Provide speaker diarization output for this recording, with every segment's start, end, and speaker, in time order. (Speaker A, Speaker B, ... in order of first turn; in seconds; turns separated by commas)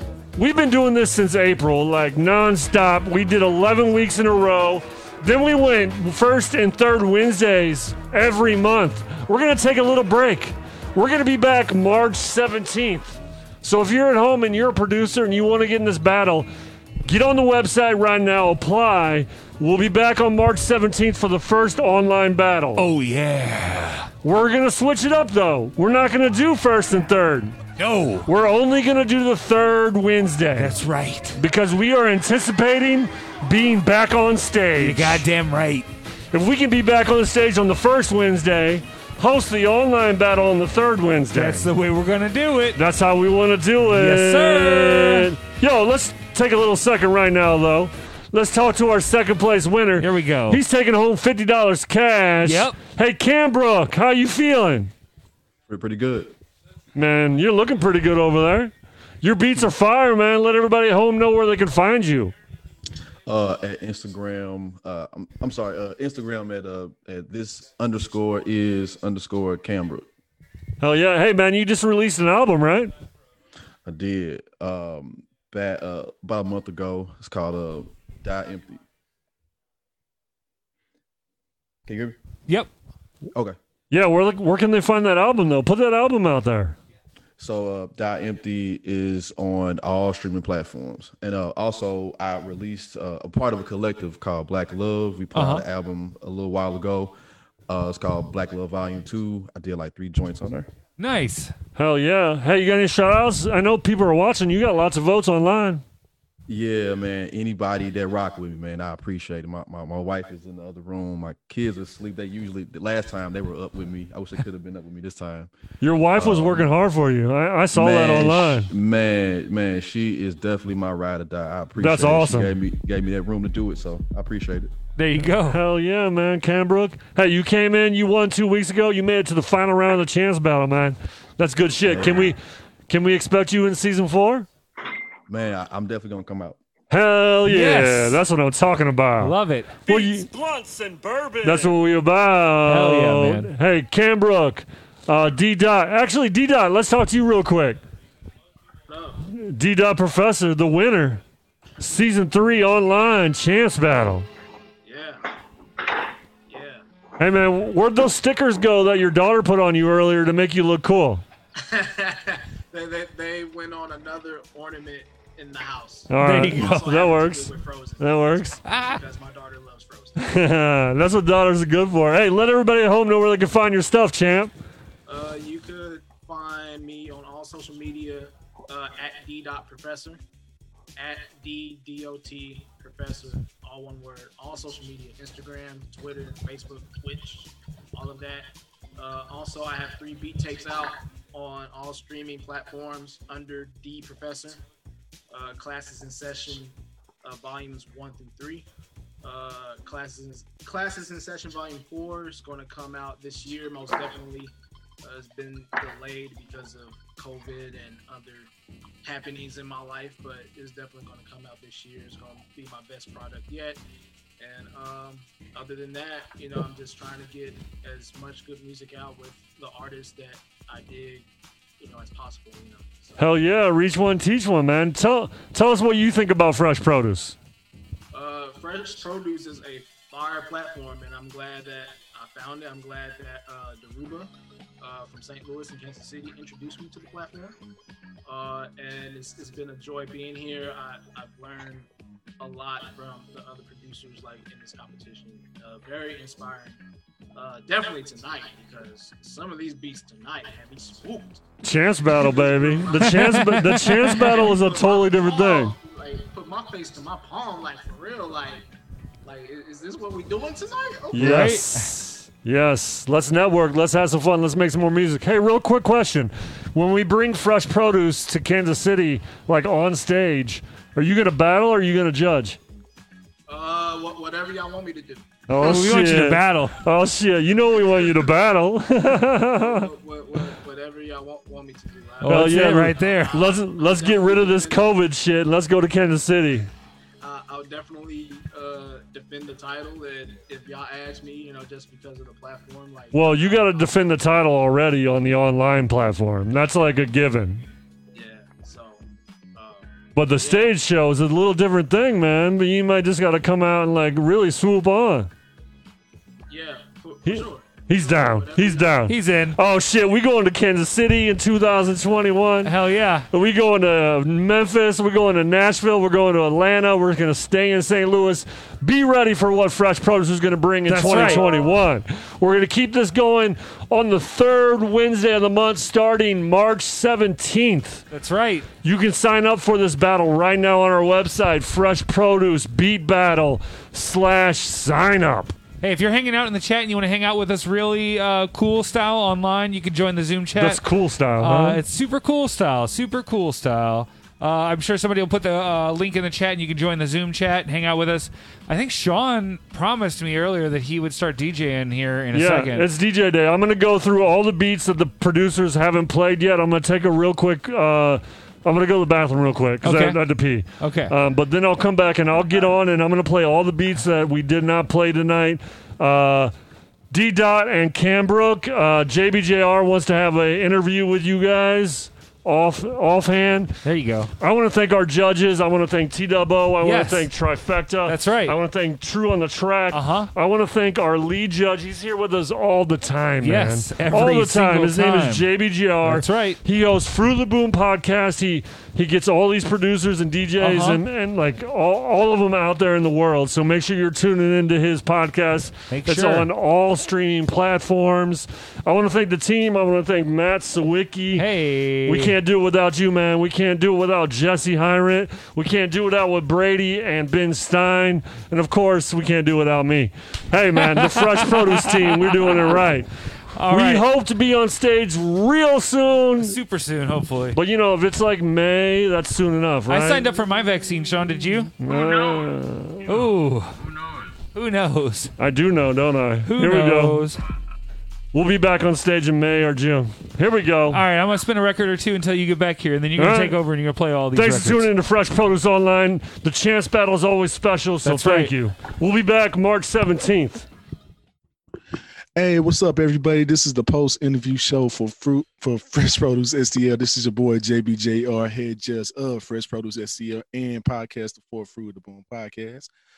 Speaker A: 0.3-16.5, Speaker A: 17.1-22.8, Speaker B: 22.8-24.1, Speaker A: 24.2-27.6, Speaker B: 27.8-28.3, Speaker A: 28.2-30.8, Speaker B: 30.6-31.4, Speaker A: 31.4-35.2, Speaker B: 34.8-35.9, Speaker A: 36.3-41.7, Speaker B: 41.3-42.8, Speaker A: 42.8-54.9, Speaker B: 43.9-45.3, Speaker B: 50.0-50.6, Speaker B: 52.4-52.8, Speaker C: 55.7-56.3, Speaker A: 56.9-62.3, Speaker C: 63.2-70.1, Speaker A: 70.8-72.9, Speaker C: 73.8-78.8, Speaker C: 81.9-82.2, Speaker A: 83.9-86.8, Speaker C: 87.4-97.2, Speaker B: 95.3-95.6, Speaker C: 97.7-100.7, Speaker B: 101.0-101.5, Speaker A: 101.8-105.8, Speaker C: 106.5-115.5, Speaker A: 115.8-118.7, Speaker C: 116.2-116.7, Speaker C: 117.7-124.7, Speaker A: 121.8-122.5, Speaker B: 125.0-125.6, Speaker A: 125.4-132.4, Speaker C: 131.8-132.3, Speaker A: 132.9-134.5, Speaker C: 135.3-136.6, Speaker A: 136.9-139.3, Speaker B: 137.4-138.2, Speaker B: 139.2-140.2, Speaker A: 139.8-140.3, Speaker A: 141.3-147.8, Speaker B: 142.7-143.5, Speaker D: 148.9-149.2, Speaker A: 149.3-151.2, Speaker A: 151.8-154.3, Speaker D: 154.8-155.2, Speaker D: 156.5-156.8, Speaker A: 157.2-161.2, Speaker D: 161.6-170.4, Speaker A: 166.1-168.6, Speaker B: 166.2-166.9, Speaker B: 168.6-169.0, Speaker A: 170.2-174.5, Speaker D: 175.1-180.2, Speaker D: 180.9-194.6, Speaker D: 195.3-198.7, Speaker D: 199.2-208.5, Speaker D: 209.0-213.8, Speaker D: 214.4-221.3, Speaker D: 221.8-223.2, Speaker A: 223.2-227.3, Speaker D: 228.1-237.6, Speaker D: 238.2-241.9, Speaker D: 242.4-246.8, Speaker D: 247.3-251.4, Speaker A: 251.6-255.7, Speaker D: 252.2-258.7, Speaker B: 252.9-254.5, Speaker D: 259.2-261.6, Speaker A: 261.1-272.6, Speaker B: 261.1-261.9, Speaker D: 273.5-275.8, Speaker A: 275.5-279.9, Speaker B: 275.6-276.8, Speaker D: 277.8-278.3, Speaker D: 279.6-284.8, Speaker B: 282.2-283.4, Speaker A: 282.2-286.7, Speaker D: 287.2-294.0, Speaker A: 293.1-297.6, Speaker D: 298.1-300.7, Speaker A: 300.1-305.3, Speaker D: 306.5-309.0, Speaker A: 307.2-312.7, Speaker B: 309.1-309.6, Speaker B: 312.6-313.3, Speaker A: 313.3-328.0, Speaker B: 320.9-321.5, Speaker B: 328.1-328.7, Speaker A: 328.8-335.5, Speaker B: 335.8-340.8, Speaker A: 340.6-341.8, Speaker B: 341.4-352.9, Speaker A: 352.3-366.5, Speaker B: 359.8-361.1, Speaker A: 367.1-373.7, Speaker B: 373.8-374.3, Speaker A: 374.4-401.4, Speaker B: 376.8-377.3, Speaker B: 378.0-378.6, Speaker B: 379.9-380.3, Speaker B: 383.4-385.5, Speaker B: 386.0-386.6, Speaker B: 390.6-391.0, Speaker B: 395.9-396.5, Speaker B: 401.3-402.3, Speaker A: 402.0-413.1, Speaker B: 410.8-412.8, Speaker B: 413.5-414.1, Speaker A: 413.7-416.6, Speaker B: 416.4-417.6, Speaker A: 417.5-420.2, Speaker B: 419.9-421.7, Speaker A: 421.8-423.3, Speaker B: 423.0-423.8, Speaker B: 424.5-425.3, Speaker A: 425.4-427.3, Speaker B: 426.4-427.4, Speaker A: 428.3-431.0, Speaker B: 430.9-434.9, Speaker A: 433.2-433.6, Speaker A: 434.3-440.6, Speaker B: 438.0-438.5, Speaker E: 442.4-452.9